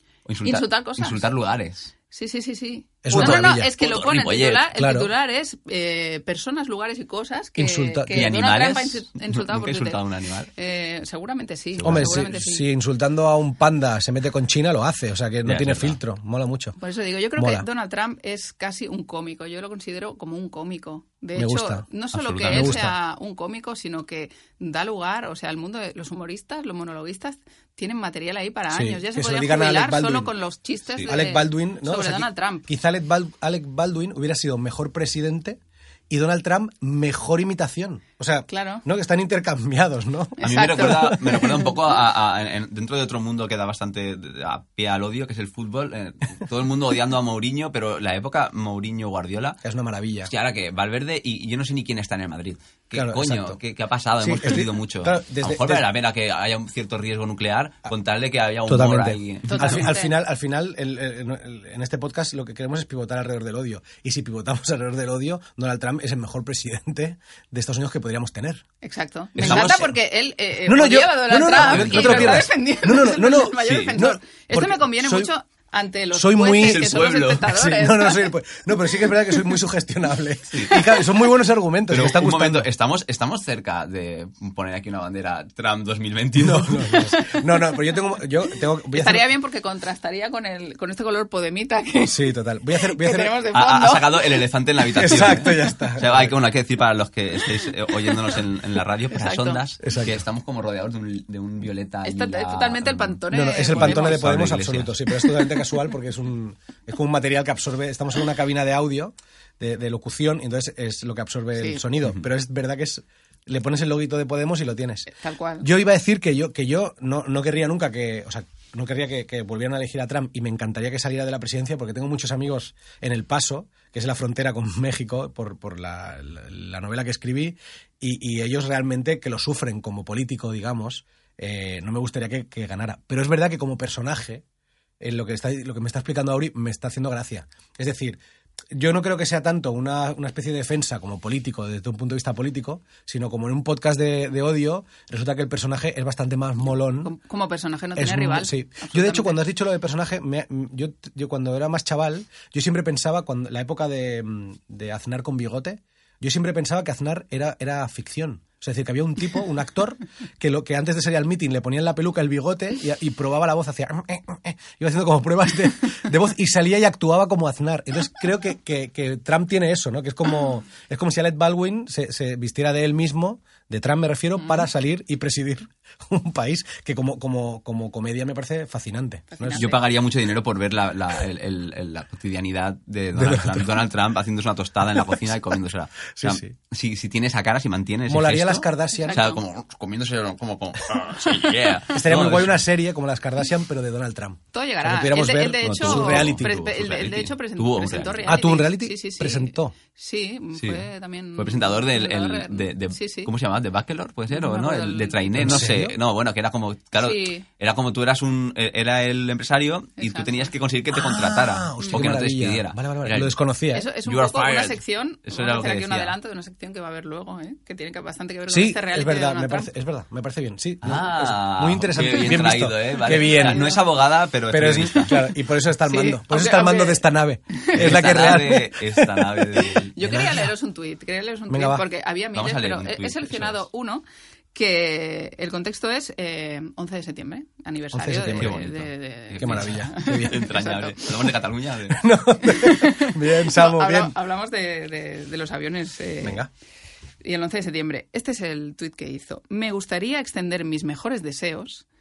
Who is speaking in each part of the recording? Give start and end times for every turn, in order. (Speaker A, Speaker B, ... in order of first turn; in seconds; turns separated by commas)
Speaker A: 0.2-1.9, Speaker B: 0.4-1.2, Speaker B: 2.1-10.0, Speaker C: 3.0-3.7, Speaker A: 3.1-4.7, Speaker C: 4.7-5.1, Speaker C: 7.6-8.3, Speaker A: 8.1-10.5, Speaker B: 10.5-12.7, Speaker A: 11.8-12.2, Speaker C: 11.8-16.8, Speaker A: 15.4-16.0, Speaker B: 16.8-32.7, Speaker C: 17.4-17.6, Speaker C: 21.3-21.9, Speaker A: 22.1-22.8, Speaker C: 22.5-22.9, Speaker C: 28.7-30.3, Speaker C: 31.1-35.6, Speaker C: 36.1-41.0, Speaker B: 38.5-38.8, Speaker B: 40.4-41.8, Speaker A: 40.4-49.6, Speaker C: 49.6-50.3, Speaker A: 50.3-59.9, Speaker C: 52.9-53.6, Speaker C: 54.2-55.8, Speaker C: 58.6-68.6, Speaker B: 59.5-60.1, Speaker B: 68.8-78.3, Speaker A: 69.4-69.9, Speaker C: 69.4-69.9, Speaker C: 70.7-75.3, Speaker A: 71.5-72.5, Speaker A: 73.6-73.9, Speaker C: 76.1-76.9, Speaker A: 76.6-77.5, Speaker C: 77.4-82.7, Speaker A: 80.5-80.8, Speaker A: 81.9-87.0, Speaker C: 86.4-89.3, Speaker B: 87.1-87.4, Speaker B: 88.9-94.4, Speaker C: 92.0-93.4, Speaker A: 93.5-104.9, Speaker C: 94.9-96.3, Speaker B: 98.0-98.4, Speaker B: 99.1-99.6, Speaker C: 99.8-100.2, Speaker B: 102.0-104.2, Speaker C: 103.3-134.4, Speaker B: 111.6-111.8, Speaker B: 115.1-115.7, Speaker C: 135.0-138.2, Speaker C: 138.7-147.1, Speaker B: 146.9-149.4, Speaker C: 147.9-179.7, Speaker B: 174.4-174.7, Speaker B: 179.3-179.8, Speaker A: 179.5-192.6, Speaker C: 183.1-183.7, Speaker C: 184.9-185.2, Speaker C: 186.2-186.5, Speaker C: 188.1-189.2, Speaker B: 188.9-189.4, Speaker C: 191.9-196.5, Speaker B: 194.5-203.3, Speaker A: 195.7-198.4, Speaker C: 198.2-199.7, Speaker A: 200.6-200.8, Speaker A: 201.4-213.4, Speaker B: 204.3-205.7, Speaker C: 205.4-205.9, Speaker B: 207.0-207.4, Speaker B: 210.0-210.5, Speaker C: 210.9-213.9, Speaker B: 213.7-219.7, Speaker A: 214.0-216.1, Speaker C: 218.5-223.8, Speaker A: 220.8-225.1, Speaker B: 223.1-223.8, Speaker C: 224.5-230.4, Speaker B: 225.8-228.0, Speaker A: 227.7-229.9, Speaker B: 229.9-241.1, Speaker C: 231.5-231.8, Speaker A: 232.3-233.6, Speaker C: 237.9-238.6, Speaker A: 238.3-242.1, Speaker C: 239.4-240.5, Speaker C: 241.9-244.1, Speaker B: 242.4-246.4, Speaker C: 246.2-246.5, Speaker B: 247.2-251.8